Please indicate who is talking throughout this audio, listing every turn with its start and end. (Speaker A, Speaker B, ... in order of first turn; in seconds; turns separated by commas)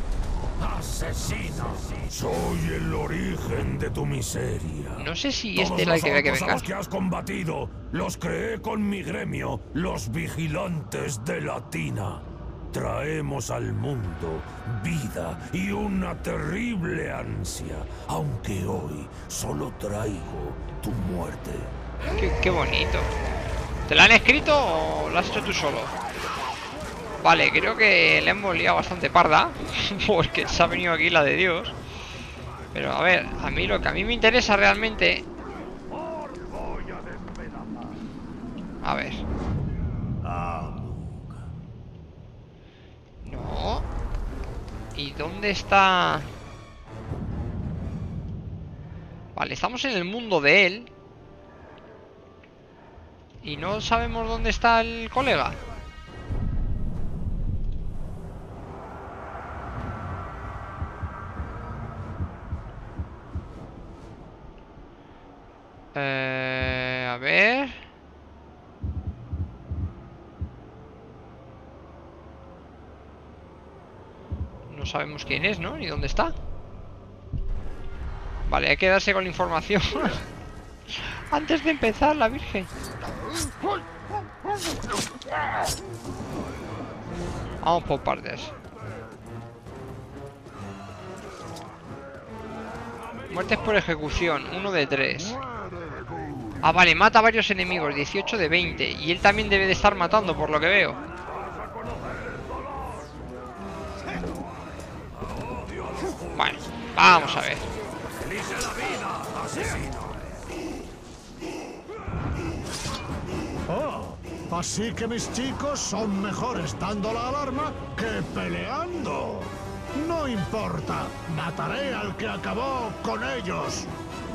Speaker A: 0.6-21.7, Speaker B: 5.0-6.7, Speaker B: 22.2-23.1, Speaker B: 23.9-25.9, Speaker B: 27.2-31.8, Speaker B: 32.7-35.3, Speaker B: 38.8-39.2, Speaker B: 43.2-43.9, Speaker B: 45.0-46.3, Speaker B: 49.4-50.9, Speaker B: 53.4-55.6, Speaker B: 66.0-67.8, Speaker B: 74.7-76.3, Speaker B: 78.5-80.2, Speaker B: 80.9-82.7, Speaker B: 87.6-88.5, Speaker B: 93.3-95.4, Speaker B: 96.6-101.0, Speaker A: 101.4-102.9, Speaker A: 105.2-106.6, Speaker B: 106.3-107.7, Speaker A: 108.2-110.1, Speaker C: 113.7-123.9